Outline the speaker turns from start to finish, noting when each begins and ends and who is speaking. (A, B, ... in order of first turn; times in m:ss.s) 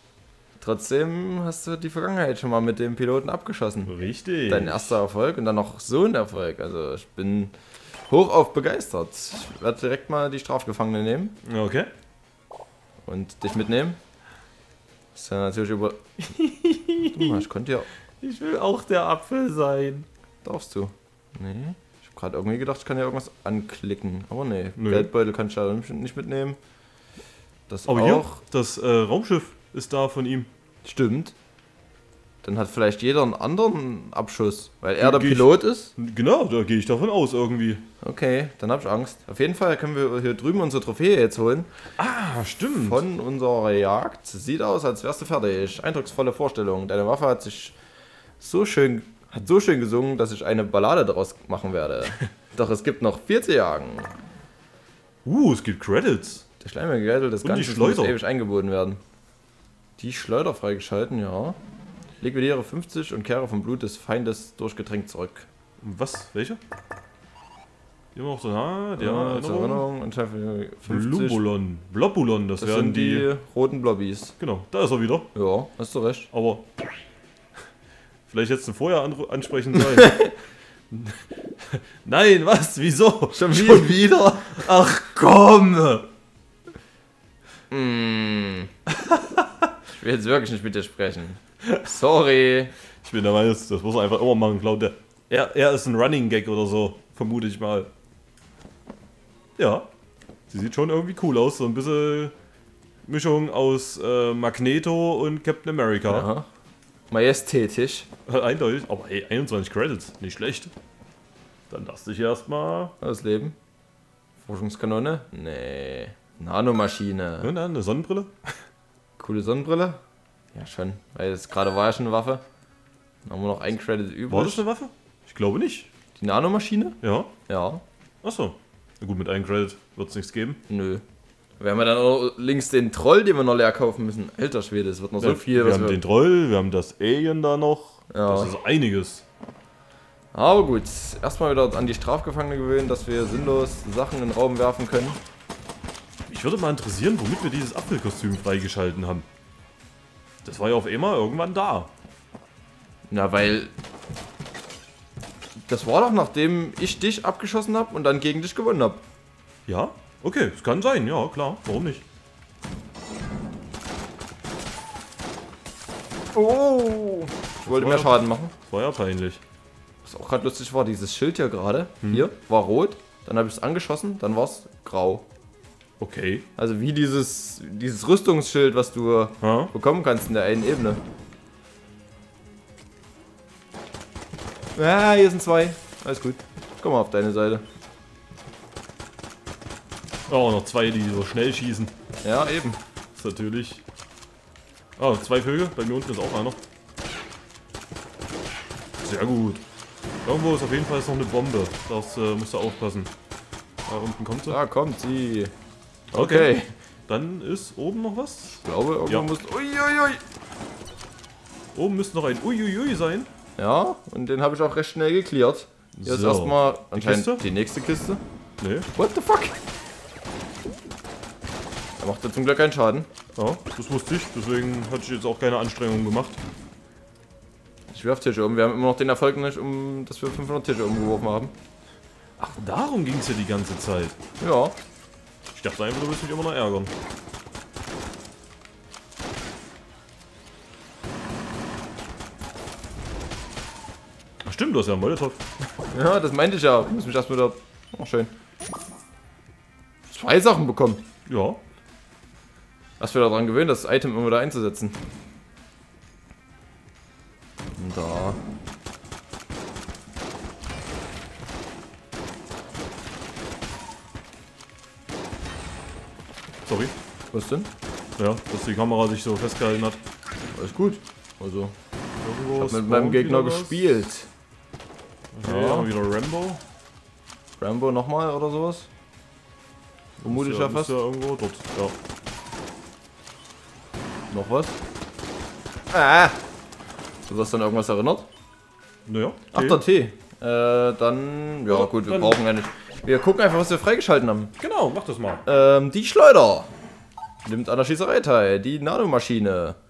0:00.6-0:03.9 A
0:03.9-0:05.0 B
0:04.5-0:07.5 A
0:08.1-0:11.4 A
0:11.4-0:11.9 B
0:13.1-0:14.0 A
0:15.2-0:16.0 A
0:16.3-0:17.5 B
0:17.1-0:17.9 A
0:18.2-0:20.1 B
0:20.4-0:26.6 A
0:24.8-0:25.1 B
0:27.7-0:28.4 A
0:27.9-0:30.5 B
0:30.8-0:31.4 A
0:32.4-0:35.9 A
0:35.0-0:37.9 B
0:38.0-0:41.7 A
0:42.0-0:43.0 B
0:42.8-0:47.8 A
0:48.4-0:54.1 A
0:55.2-0:56.4 B
0:56.6-0:59.0 A
0:57.4-0:58.2 B
1:00.0-1:01.6 A
1:02.2-1:05.5 A
1:05.8-1:06.6 B
1:08.2-1:09.9 B
1:09.0-1:11.4 A
1:10.9-1:13.3 B
1:12.6-1:14.4 A
1:14.4-1:15.3 B
1:15.4-1:16.3 A
1:16.3-1:16.7 B
1:18.3-1:20.3 B
1:19.9-1:20.3 A
1:20.9-1:26.1 B
1:23.3-1:24.7 A
1:27.7-1:28.7 A
1:28.9-1:29.5 B
1:29.9-1:32.7 A
1:33.0-1:37.9 B
1:39.6-1:39.9 B
1:40.5-1:42.3 B
1:43.0-1:46.3 B
1:46.1-1:46.5 A
1:47.1-1:48.1 A
1:48.3-1:50.7 B
1:51.7-1:52.9 B
1:53.0-1:53.6 A
1:54.4-1:57.5 A
1:57.4-1:58.6 B
1:59.2-2:00.0 A
2:00.6-2:02.4 A
2:03.2-2:04.6 A
2:04.3-2:05.9 B
2:06.2-2:07.0 A
2:07.0-2:07.3 B
2:07.5-2:07.8 A
2:08.2-2:10.6 B
2:10.7-2:11.0 A
2:11.6-2:16.0 A
2:15.2-2:19.2 B
2:18.1-2:18.5 A
2:20.3-2:25.2 A
2:26.3-2:29.3 B
2:30.4-2:31.9 B
2:33.1-2:33.7 A
2:35.7-2:39.0 A
2:39.7-2:42.0 B
2:46.3-2:48.5 A
2:47.7-2:49.4 B
2:50.0-2:55.3 A
2:52.0-2:52.3 B
2:56.0-2:56.4 B
2:56.6-3:01.0 A
2:59.4-2:59.7 B
3:04.8-3:07.6 A
3:10.3-3:11.9 B
3:12.2-3:12.8 A
3:13.2-3:13.8 B
3:15.0-3:16.6 B
3:19.0-3:19.6 B
3:20.2-3:23.1 B
3:23.9-3:24.6 B
3:24.5-3:25.5 A
3:26.1-3:26.5 B
3:26.1-3:26.7 A
3:27.1-3:29.3 B
3:28.6-3:30.2 A
3:31.7-3:33.3 B
3:33.6-3:38.2 A
3:35.9-3:37.4 B
3:38.6-3:38.9 B
3:39.0-3:39.6 A
3:42.0-3:43.1 A
3:43.4-3:46.4 B
3:47.9-3:51.5 A
3:52.4-3:54.2 B
3:54.4-3:54.8 A
3:55.5-3:56.9 B
4:04.4-4:05.4 B
4:05.9-4:08.3 A
4:10.1-4:11.0 A
4:11.3-4:11.6 B
4:13.0-4:15.0 A
4:17.8-4:18.4 A
4:26.7-4:26.9 B
4:27.3-4:27.7 A
4:28.2-4:30.0 B
4:30.6-4:31.8 A
4:32.2-4:33.9 B
4:32.6-4:34.3 A
4:35.3-4:36.6 B
4:35.4-4:35.9 A
4:37.6-4:38.9 A
4:40.2-4:42.0 B
4:40.3-4:40.9 A
4:44.3-4:44.8 A
4:45.9-4:46.4 A
4:47.3-4:48.3 A
4:49.1-4:49.8 B
4:49.5-4:54.5 A
4:51.7-4:52.4 B
4:54.6-4:55.4 B
4:55.4-4:56.7 A
4:57.4-4:59.8 A